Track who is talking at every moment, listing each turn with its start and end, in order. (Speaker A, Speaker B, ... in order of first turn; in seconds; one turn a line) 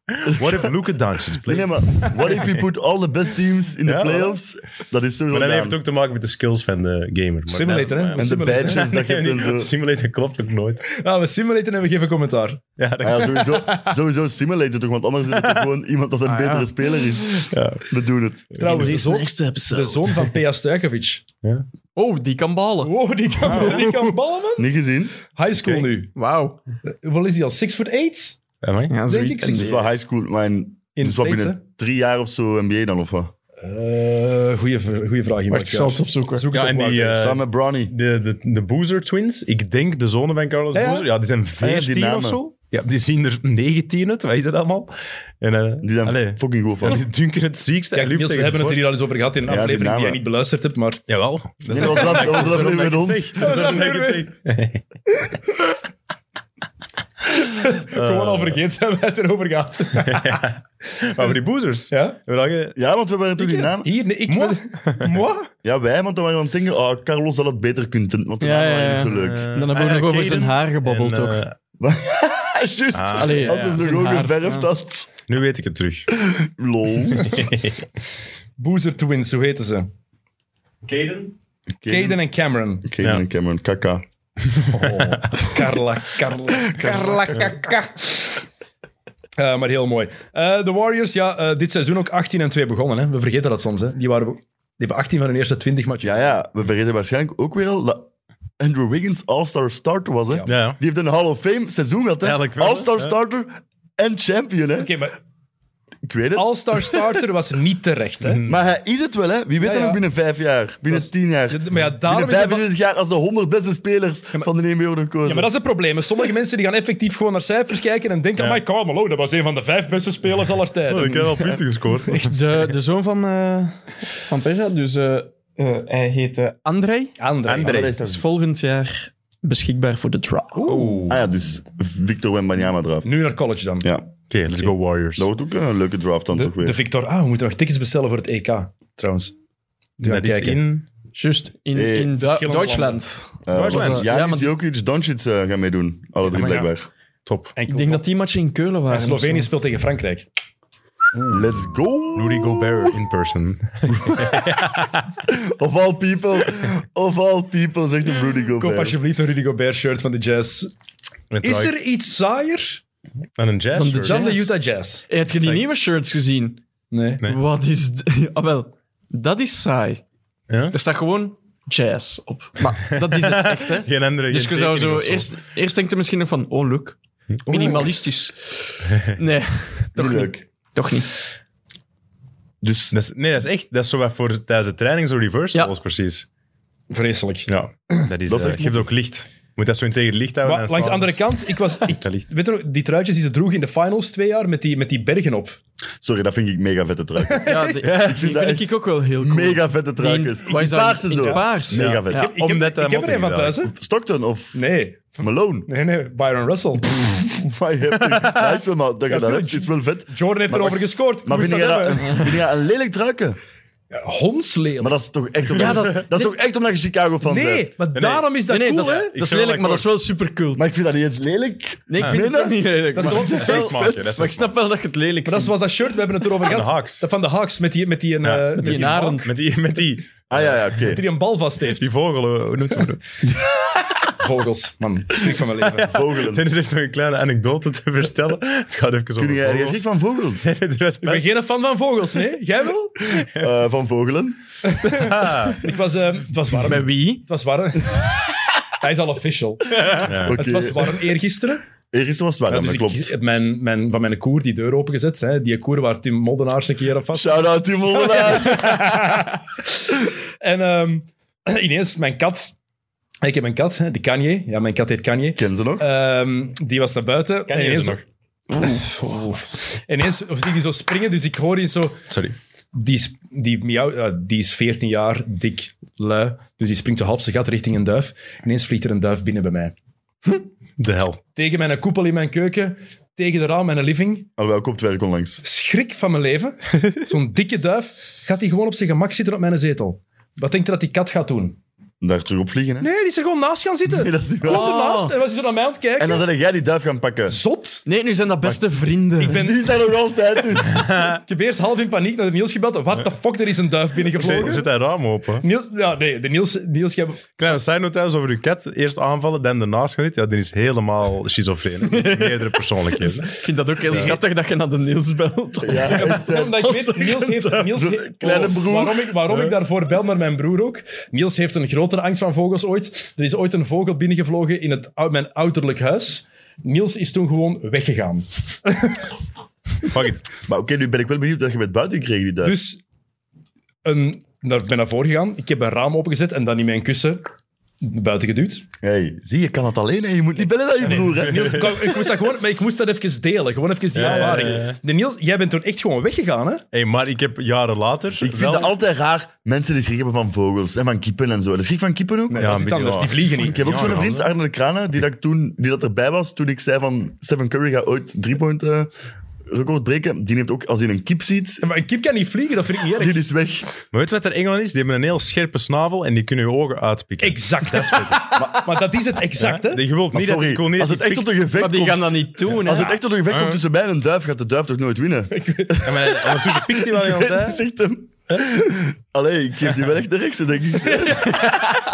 Speaker A: 0.1-2.6
Speaker B: 0.2-0.7
Speaker B: 1.4-5.8
Speaker A: 3.9-4.3
Speaker A: 5.3-10.8
Speaker C: 7.5-8.9
Speaker B: 8.2-9.7
Speaker C: 10.9-12.6
Speaker A: 12.8-13.4
Speaker B: 13.0-18.9
Speaker C: 13.5-13.9
Speaker D: 16.2-17.5
Speaker A: 17.5-17.9
Speaker A: 18.6-18.9
Speaker C: 18.6-21.2
Speaker D: 18.6-20.3
Speaker D: 21.9-22.9
Speaker C: 22.8-24.6
Speaker B: 23.4-25.1
Speaker C: 25.3-26.1
Speaker D: 26.1-26.6
Speaker C: 26.9-28.4
Speaker A: 28.6-28.9
Speaker D: 28.9-29.9
Speaker C: 29.1-29.8
Speaker B: 29.5-33.3
Speaker C: 30.9-31.6
Speaker C: 33.6-37.3
Speaker D: 35.5-36.5
Speaker A: 36.5-48.9
Speaker B: 37.1-37.9
Speaker C: 40.7-41.1
Speaker B: 41.6-42.4
Speaker B: 45.8-47.0
Speaker C: 47.9-51.1
Speaker B: 49.5-50.2
Speaker A: 51.1-54.8
Speaker B: 51.7-53.5
Speaker C: 53.4-54.3
Speaker C: 57.3-60.4
Speaker A: 57.9-58.6
Speaker A: 60.0-62.8
Speaker C: 61.9-62.2
Speaker B: 62.8-64.0
Speaker C: 63.4-65.5
Speaker A: 64.3-65.2
Speaker B: 65.6-69.5
Speaker D: 68.4-71.4
Speaker A: 69.2-71.5
Speaker B: 71.8-75.1
Speaker A: 72.9-73.8
Speaker D: 73.1-74.7
Speaker A: 75.3-76.1
Speaker B: 76.1-77.4
Speaker A: 77.2-77.9
Speaker C: 78.6-79.9
Speaker A: 80.8-81.3
Speaker B: 81.8-82.2
Speaker C: 81.9-82.9
Speaker B: 82.8-84.0
Speaker A: 84.5-85.5
Speaker C: 84.7-88.2
Speaker D: 86.8-87.5
Speaker B: 86.8-87.1
Speaker C: 89.4-96.3
Speaker B: 96.0-98.1
Speaker B: 98.6-104.9
Speaker A: 100.5-100.8
Speaker A: 102.2-103.1
Speaker C: 104.8-105.1
Speaker B: 106.0-107.1
Speaker C: 106.3-108.4
Speaker A: 108.2-108.6
Speaker B: 108.5-115.5
Speaker C: 109.6-110.0
Speaker C: 110.9-112.7
Speaker C: 115.2-121.5
Speaker A: 120.9-122.4
Speaker D: 122.1-127.1
Speaker C: 127.2-127.9
Speaker A: 127.5-128.2
Speaker B: 127.6-128.2
Speaker D: 128.0-130.8
Speaker C: 130.6-131.0
Speaker A: 130.6-131.2
Speaker B: 131.1-133.2
Speaker C: 133.0-133.9
Speaker B: 133.8-136.8
Speaker A: 134.3-135.3
Speaker C: 136.3-139.3
Speaker A: 140.0-140.8
Speaker C: 140.0-140.6
Speaker D: 141.1-144.5
Speaker B: 141.7-142.1
Speaker C: 142.2-143.0
Speaker B: 143.4-146.9
Speaker C: 143.6-143.9
Speaker A: 143.7-144.0
Speaker A: 146.3-146.7
Speaker C: 146.4-146.7
Speaker A: 147.3-147.5
Speaker C: 147.6-148.0
Speaker D: 147.7-149.5
Speaker C: 148.9-150.3
Speaker B: 151.3-153.0
Speaker A: 152.2-155.1
Speaker B: 154.1-154.4
Speaker B: 155.3-159.0
Speaker C: 158.6-160.7
Speaker A: 161.3-161.8
Speaker C: 161.4-162.8
Speaker A: 163.4-164.3
Speaker D: 163.7-164.5
Speaker C: 163.8-165.1
Speaker D: 165.1-166.6
Speaker C: 166.9-167.2
Speaker D: 167.2-170.0
Speaker A: 170.5-170.8
Speaker D: 170.7-181.2
Speaker A: 172.9-175.4
Speaker A: 177.4-177.8
Speaker B: 179.9-180.4
Speaker B: 182.6-182.9
Speaker A: 182.9-186.3
Speaker C: 186.9-187.5
Speaker A: 187.5-191.2
Speaker B: 188.3-188.9
Speaker C: 190.4-195.6
Speaker A: 191.9-192.2
Speaker B: 196.0-198.7
Speaker C: 197.3-197.8
Speaker D: 197.4-202.3
Speaker A: 197.8-198.2
Speaker B: 199.2-202.3
Speaker C: 200.5-201.5
Speaker A: 201.7-203.7
Speaker C: 202.1-203.7
Speaker B: 203.7-204.6
Speaker C: 204.5-207.0
Speaker B: 205.2-205.7
Speaker B: 206.9-213.4
Speaker C: 209.1-212.2
Speaker C: 213.9-214.9
Speaker B: 214.8-217.7
Speaker C: 215.5-216.3
Speaker A: 215.6-216.0
Speaker C: 217.2-219.1
Speaker A: 217.9-218.3
Speaker D: 218.5-220.7
Speaker A: 219.1-219.9
Speaker B: 220.6-224.1
Speaker D: 221.9-225.6
Speaker C: 222.9-223.7
Speaker A: 223.1-224.5
Speaker C: 225.2-229.2
Speaker A: 226.4-227.1
Speaker A: 228.2-230.5
Speaker D: 228.6-229.3
Speaker B: 230.3-231.0
Speaker C: 230.8-231.9
Speaker A: 231.8-233.1
Speaker C: 234.1-235.9
Speaker A: 235.6-239.8
Speaker B: 235.8-236.4
Speaker B: 239.2-240.5
Speaker A: 240.4-241.3
Speaker C: 241.0-243.3
Speaker B: 243.2-244.4
Speaker C: 244.6-248.1
Speaker A: 244.9-245.6
Speaker D: 246.6-247.2
Speaker C: 248.7-251.6
Speaker B: 250.0-250.9
Speaker A: 250.0-250.4
Speaker B: 251.9-253.1
Speaker C: 252.5-259.9
Speaker B: 257.1-258.9
Speaker C: 260.4-262.5
Speaker C: 263.2-268.0
Speaker B: 265.4-265.8
Speaker A: 267.5-268.0
Speaker C: 268.6-272.1
Speaker A: 272.1-272.4
Speaker C: 272.7-279.7
Speaker A: 280.8-281.2
Speaker C: 281.4-284.3
Speaker B: 284.4-285.4
Speaker C: 285.4-291.6
Speaker B: 292.0-292.9
Speaker C: 292.8-296.2
Speaker B: 293.9-294.8
Speaker D: 294.4-295.1
Speaker B: 296.0-297.4
Speaker C: 297.3-297.9
Speaker D: 297.9-299.4
Speaker C: 299.2-299.7
Speaker B: 299.2-300.9
Speaker A: 300.8-301.2
Speaker C: 301.3-304.7
Speaker A: 304.1-305.4
Speaker C: 305.4-307.4
Speaker A: 307.4-313.4
Speaker D: 311.8-317.6
Speaker C: 313.9-314.2
Speaker B: 315.6-316.9
Speaker C: 315.8-329.0
Speaker B: 317.6-319.1
Speaker A: 329.9-330.2
Speaker B: 330.4-332.6
Speaker C: 332.4-332.8
Speaker C: 333.9-337.2
Speaker C: 337.8-338.6
Speaker B: 338.8-341.7
Speaker C: 340.8-346.6
Speaker A: 343.9-344.8
Speaker A: 346.7-348.7
Speaker B: 348.2-358.9
Speaker C: 352.3-353.7
Speaker A: 352.4-354.3
Speaker B: 359.5-361.6
Speaker C: 361.6-363.2
Speaker B: 362.9-363.8
Speaker A: 363.9-368.4
Speaker C: 367.2-369.8
Speaker B: 368.4-368.6
Speaker A: 369.4-371.4
Speaker B: 370.1-381.5
Speaker D: 371.6-373.0
Speaker A: 373.3-373.6
Speaker C: 375.3-376.1
Speaker A: 375.8-377.6
Speaker C: 380.8-381.6